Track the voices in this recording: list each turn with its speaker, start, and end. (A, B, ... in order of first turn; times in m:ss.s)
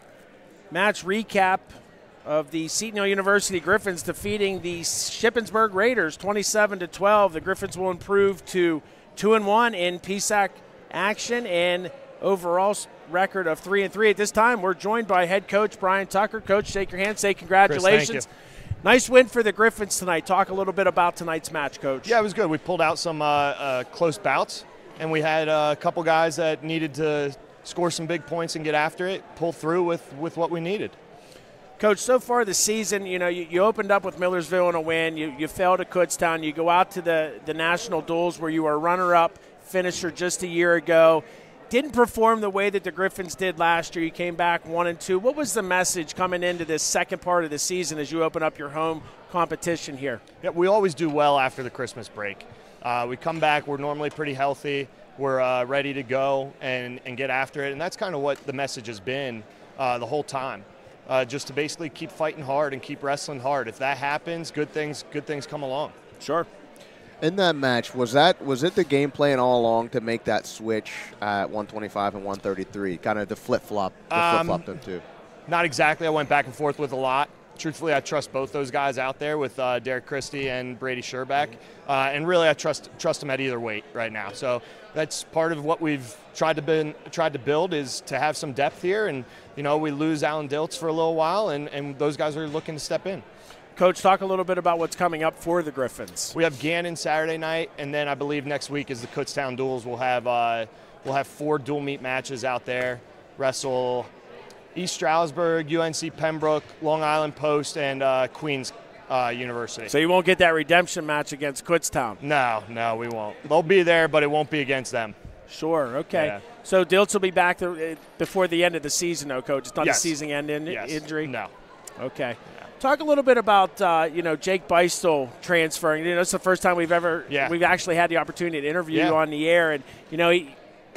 0:00.7-0:01.7 A
0:02.2-0:18.3 A
0:17.6-0:18.2 B
0:18.8-0:22.1 A
0:22.0-0:31.0 B
0:31.8-0:50.2 A
0:50.4-1:05.9 B
1:06.2-1:06.5 A
1:07.2-1:15.0 C
1:14.1-1:14.6 B
1:15.5-1:33.2 B
1:33.8-1:36.3 A
1:36.3-1:44.1 B
1:44.7-1:49.9 B
1:49.9-1:52.2 A
1:52.2-1:55.2 B
1:55.5-2:01.3 A
1:56.1-1:56.4 B
1:59.8-2:01.5 B
2:02.0-2:10.6 A
2:07.3-2:07.6 B
2:08.9-2:09.2 B